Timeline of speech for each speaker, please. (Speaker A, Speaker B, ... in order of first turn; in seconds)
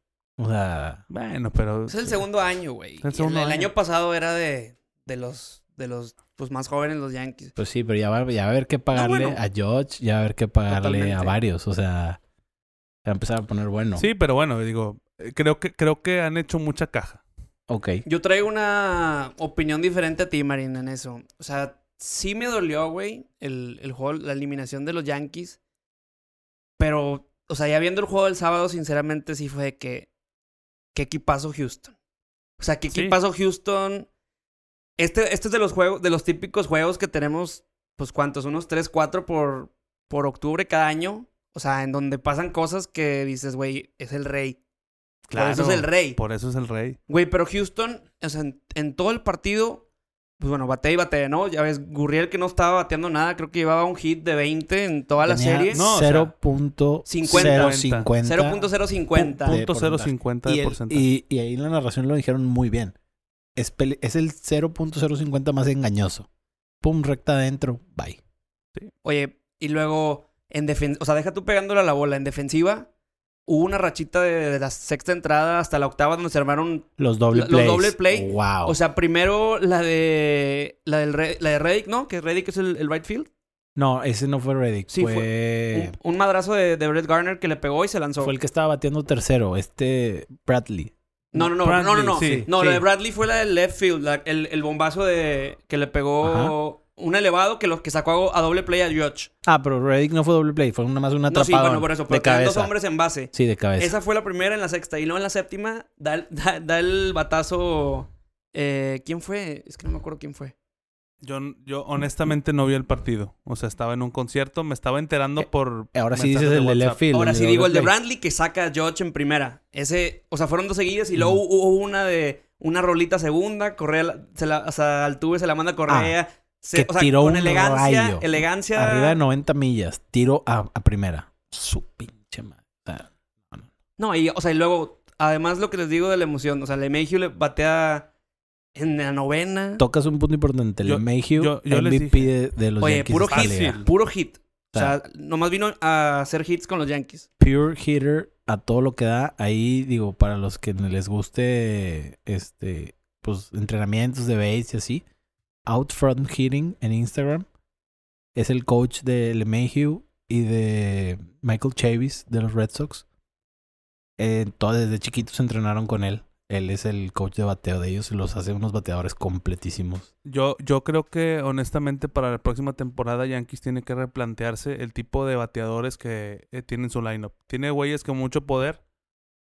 Speaker A: 0.4-1.0, 7.6-12.2, 13.1-14.1, 17.7-18.1, 55.2-63.0, 63.6-66.3, 66.8-68.2, 77.0-78.8, 83.8-85.9, 88.2-90.9, 92.1-92.8, 96.2-96.5, 99.4-102.7, 103.3-104.0, 115.4-117.9, 125.9-126.2, 126.7-133.7, 139.8-143.8, 147.4-155.0, 155.7-157.5, 158.3-163.1, 164.2-170.1
Speaker B: 1.1-2.2, 3.0-3.7, 14.0-17.2, 32.9-33.2, 45.3-47.0, 55.7-56.3, 57.3-58.1, 59.3-61.0, 91.4-92.5, 111.2-117.0, 140.8-142.3, 143.3-143.9, 170.2-178.8
Speaker C: 1.9-7.5, 8.9-9.4, 10.7-11.4, 18.1-25.6, 26.8-30.1, 30.9-31.9, 32.6-34.1, 35.0-44.6, 45.4-46.2, 47.1-49.8, 50.4-55.8, 57.1-59.6, 69.0-72.9, 73.5-83.3, 84.9-88.3, 91.3-99.3, 101.3-110.5, 117.1-129.2, 134.0-138.1, 138.8-139.8, 142.8-147.3